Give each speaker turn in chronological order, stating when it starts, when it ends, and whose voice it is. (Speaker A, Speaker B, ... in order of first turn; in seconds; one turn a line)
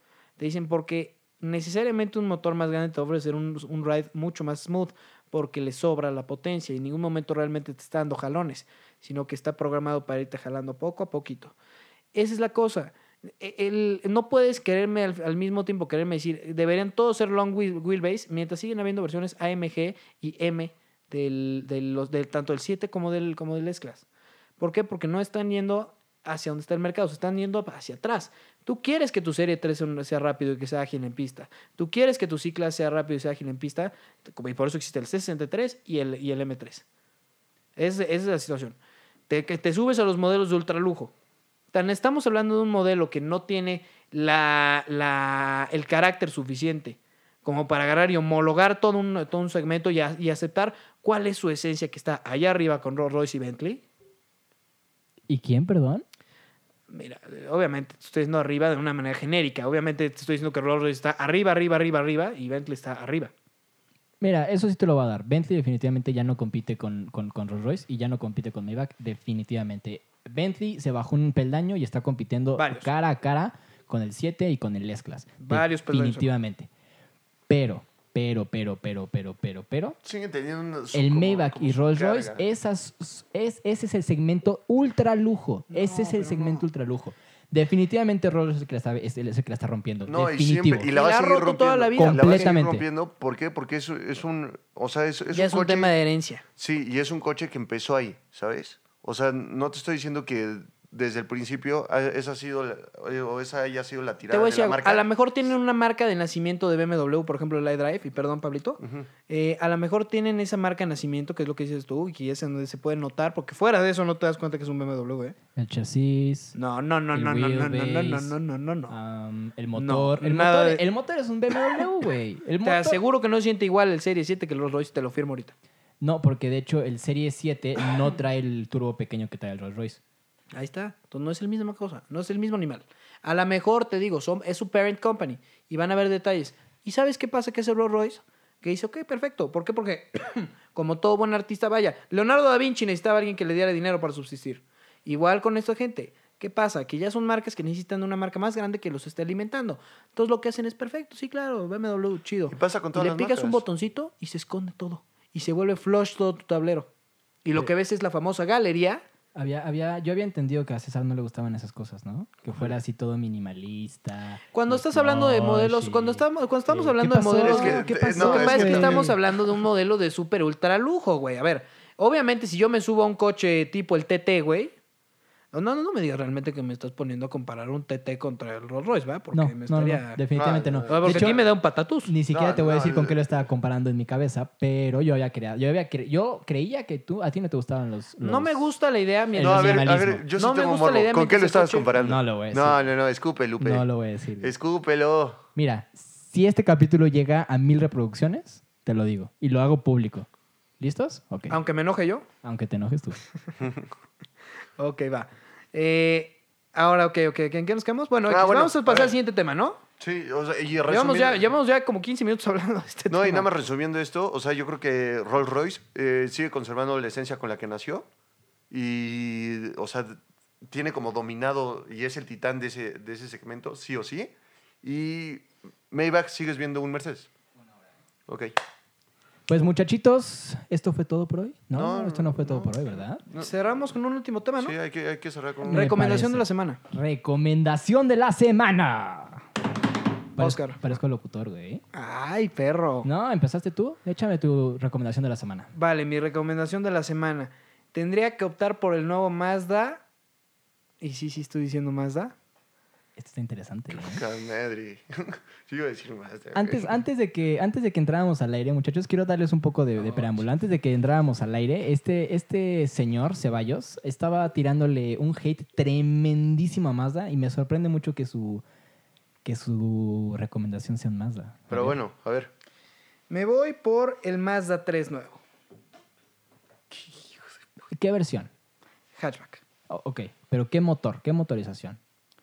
Speaker A: 0.4-11.6
Speaker A: 12.1-24.1
Speaker A: 24.6-36.8
Speaker A: 37.8-38.8
Speaker A: 39.3-41.1
Speaker A: 41.7-53.8
Speaker B: 55.3-56.0
Speaker A: 56.9-63.3
Speaker B: 64.2-76.7
Speaker A: 72.6-72.9
Speaker A: 75.4-76.3
Speaker B: 77.5-80.0
Speaker C: 80.0-82.5
Speaker B: 80.9-90.9
Speaker A: 85.7-86.7
Speaker C: 90.1-95.9
Speaker A: 90.9-92.5
Speaker B: 92.0-92.8
Speaker A: 95.3-96.4
Speaker C: 96.6-105.5
Speaker A: 104.3-115.4
Speaker C: 108.8-109.1
Speaker B: 115.6-116.5
Speaker A: 116.5-119.0
Speaker B: 117.1-118.3
Speaker B: 118.9-123.0
Speaker A: 119.7-120.8
Speaker A: 122.6-125.5
Speaker B: 126.0-130.0
Speaker A: 130.5-156.9
Speaker C: 152.5-153.6
Speaker A: 157.4-159.0
Speaker B: 159.3-169.2
Speaker A: 164.5-174.8
Speaker C: 167.4-169.2
Speaker A: 175.5-180.2
Speaker B: 179.3-181.4
Speaker C: 180.4-181.5
Speaker A: 180.9-182.1
Speaker B: 182.1-188.7
Speaker C: 182.3-183.3
Speaker A: 188.2-191.9
Speaker B: 189.3-190.2
Speaker C: 189.4-193.9
Speaker B: 192.0-192.9
Speaker B: 193.6-194.5
Speaker C: 194.4-195.4
Speaker B: 195.6-200.3
Speaker B: 200.8-201.6
Speaker A: 201.5-202.2
Speaker B: 202.4-203.2
Speaker A: 204.8-209.8
Speaker C: 208.3-209.2
Speaker C: 210.0-211.5
Speaker A: 210.9-213.5
Speaker C: 213.1-218.1
Speaker C: 218.7-224.3
Speaker C: 224.8-227.3
Speaker B: 229.5-233.2
Speaker C: 231.8-232.8
Speaker A: 233.3-234.8
Speaker C: 234.6-235.9
Speaker A: 235.7-236.8
Speaker B: 235.7-239.5
Speaker B: 240.4-241.8
Speaker A: 240.4-240.8
Speaker A: 241.9-243.1
Speaker B: 243.0-245.7
Speaker A: 245.8-250.0
Speaker A: 251.0-252.3
Speaker B: 253.2-254.2
Speaker C: 253.9-256.9
Speaker B: 256.5-268.6
Speaker C: 260.0-260.4
Speaker B: 269.4-272.0
Speaker C: 271.7-272.5
Speaker A: 273.3-275.4
Speaker B: 277.9-278.5
Speaker A: 279.2-279.6
Speaker B: 279.9-282.0